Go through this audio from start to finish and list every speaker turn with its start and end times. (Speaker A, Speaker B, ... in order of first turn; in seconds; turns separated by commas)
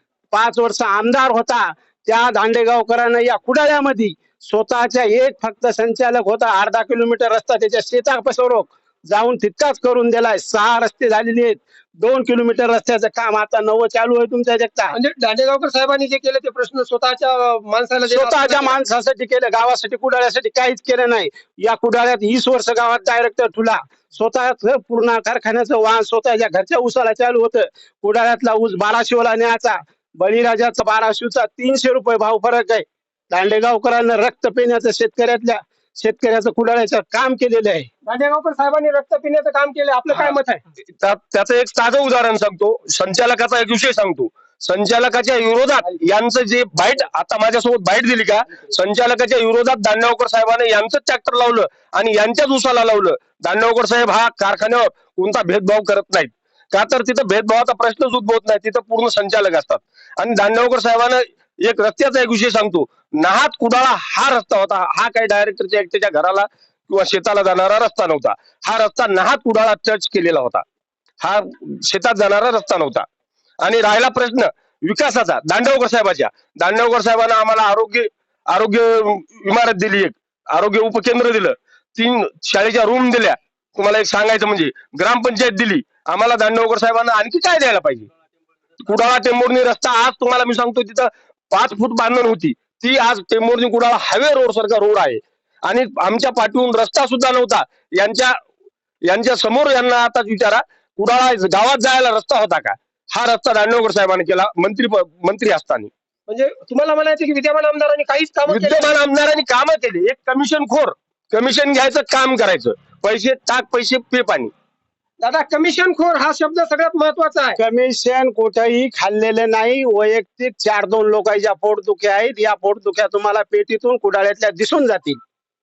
Speaker A: 0.3-14.9, Speaker B: 14.9-18.8, Speaker A: 18.1-37.9, Speaker B: 38.0-40.6, Speaker C: 41.0-70.6, Speaker C: 71.2-73.0, Speaker C: 73.6-88.1, Speaker C: 88.8-98.4, Speaker C: 99.0-105.9, Speaker B: 106.3-109.0, Speaker C: 108.5-114.5, Speaker B: 115.2-117.6, Speaker A: 117.6-125.2